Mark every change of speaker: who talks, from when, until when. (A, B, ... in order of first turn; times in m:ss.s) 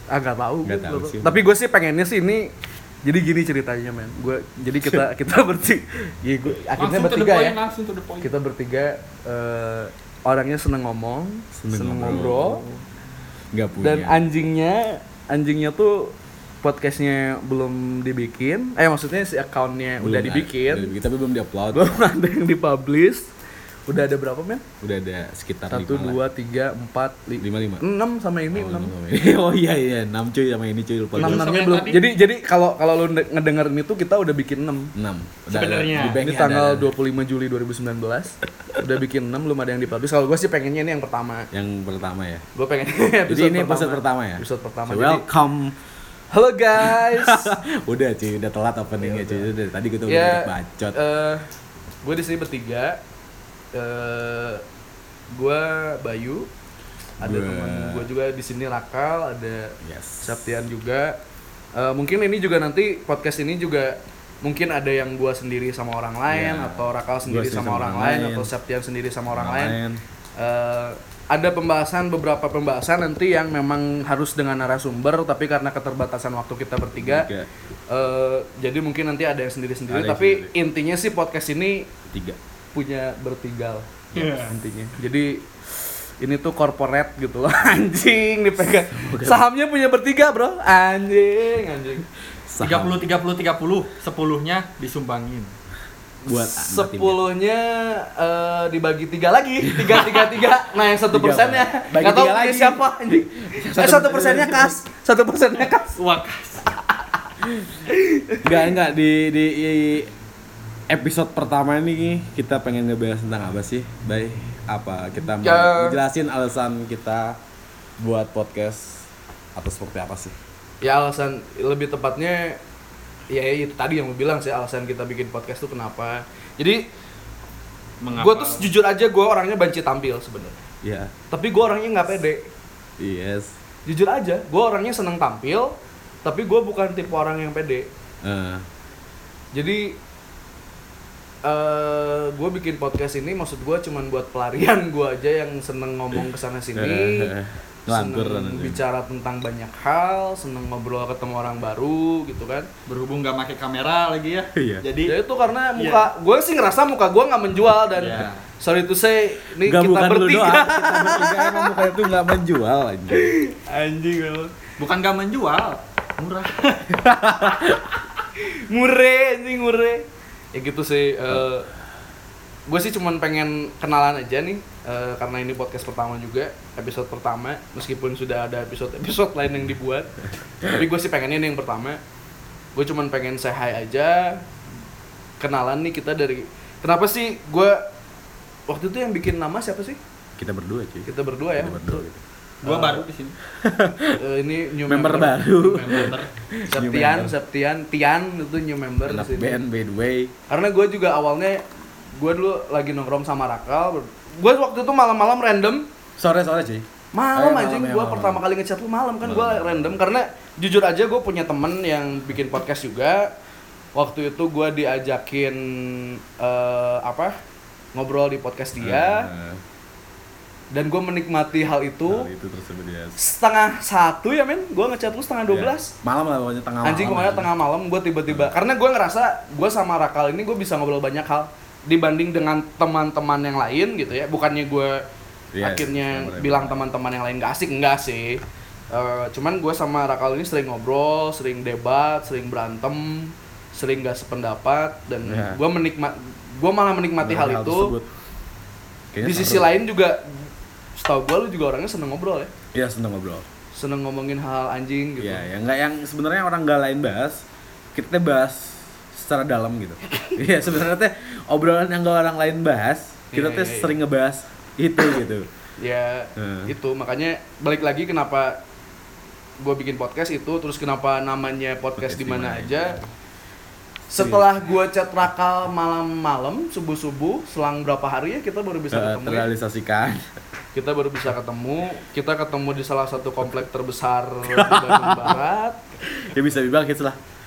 0:00.1-0:02.5 A
0:00.6-0:01.4 B
0:03.0-0:07.6 A
0:04.8-0:05.0 B
0:06.8-0:08.3 C
0:08.2-0:12.6 A
0:11.6-0:12.8 B
0:13.5-0:14.2 B
0:13.8-0:20.9 A
0:20.0-0:21.8 B
0:21.7-0:23.3 A
0:23.9-0:24.6 A
0:24.8-0:26.2 B
0:25.7-0:28.9 A
0:27.4-0:27.8 B
0:28.5-0:31.5 B
0:31.1-0:32.0 C
0:31.2-0:34.9 A
0:35.0-0:36.9 B
0:35.5-0:36.2 C
0:36.1-0:41.5 A
0:41.5-0:42.4 B
0:42.6-0:45.3 A
0:43.3-0:45.8 B
0:46.3-0:47.6 A
0:46.8-0:51.0 B
0:49.0-0:49.5 A
0:50.1-0:51.5 A
0:52.0-0:53.0 A
0:53.7-0:54.6 A
0:55.3-0:56.5 A
0:57.2-1:01.2 A
0:57.2-0:58.1 B
0:59.8-1:00.4 B
1:01.8-1:09.8 A
1:06.3-1:08.5 B
1:09.3-1:10.0 B
1:10.4-1:17.3 A
1:17.0-1:17.5 B
1:17.9-1:21.9 A
1:19.9-1:20.5 B
1:22.1-1:22.4 B
1:22.7-1:32.1 A
1:24.2-1:24.5 C
1:28.9-1:29.4 B
1:32.5-1:33.0 B
1:32.6-1:35.5 C
1:36.2-1:46.0 A
1:36.3-1:37.2 B
1:39.6-1:40.2 B
1:41.1-1:44.8 B
1:45.9-1:46.8 C
1:47.9-1:48.5 A
1:48.4-1:50.1 B
1:50.9-1:57.4 B
1:55.4-1:56.0 A
1:58.0-2:00.4 B
2:00.8-2:02.6 A
2:03.3-2:06.8 A
2:08.0-2:08.7 C
2:08.1-2:10.6 A
2:10.8-2:11.1 B
2:11.3-2:12.5 A
2:13.0-2:13.5 B
2:13.9-2:17.9 A
2:18.2-2:18.6 B
2:19.5-2:20.0 A
2:21.4-2:27.3 A
2:26.8-2:28.8 B
2:27.9-2:32.7 A
2:32.9-2:35.1 C
2:34.6-2:34.8 B
2:35.1-2:41.9 A
2:35.8-2:36.1 C
2:38.0-2:38.4 C
2:39.6-2:43.3 B
2:43.1-2:44.5 A
2:44.8-2:47.0 C
2:47.0-2:47.8 B
2:48.4-2:51.7 A
2:52.7-3:02.0 A
3:02.7-3:04.4 A
3:05.4-3:07.8 A
3:08.7-3:10.0 A
3:10.4-3:12.2 B
3:11.1-3:12.1 A
3:12.6-3:13.0 A
3:12.6-3:13.4 C
3:13.5-3:14.2 B
3:14.2-3:16.1 A
3:14.9-3:17.3 B
3:15.6-3:16.3 C
3:16.7-3:19.6 A
3:19.1-3:20.3 B
3:20.5-3:21.6 A
3:22.2-3:25.9 A
3:26.2-3:28.4 B
3:27.1-3:33.3 A
3:29.2-3:30.0 B
3:34.0-3:37.4 A
3:37.9-3:39.3 A
3:38.8-3:39.6 B
3:40.7-3:42.3 A
3:42.1-3:43.2 B
3:43.2-3:45.9 A
3:45.5-3:47.5 B
3:46.8-3:55.0 A
3:48.3-3:48.5 B
3:55.5-3:56.9 B
3:55.6-4:07.9 A
4:05.2-4:05.6 B
4:07.2-4:08.1 B
4:09.1-4:09.7 B
4:09.2-4:12.5 A
4:12.7-4:13.4 B
4:13.7-4:15.5 A
4:15.2-4:25.5 B
4:23.3-4:24.0 A
4:25.8-4:28.6 A
4:26.4-4:26.7 B
4:29.6-4:33.0 A
4:32.0-4:33.0 B
4:34.1-4:39.5 A
4:34.1-4:34.5 B
4:38.9-4:40.3 B
4:40.7-4:45.8 A
4:44.5-4:45.4 B
4:46.1-4:47.2 B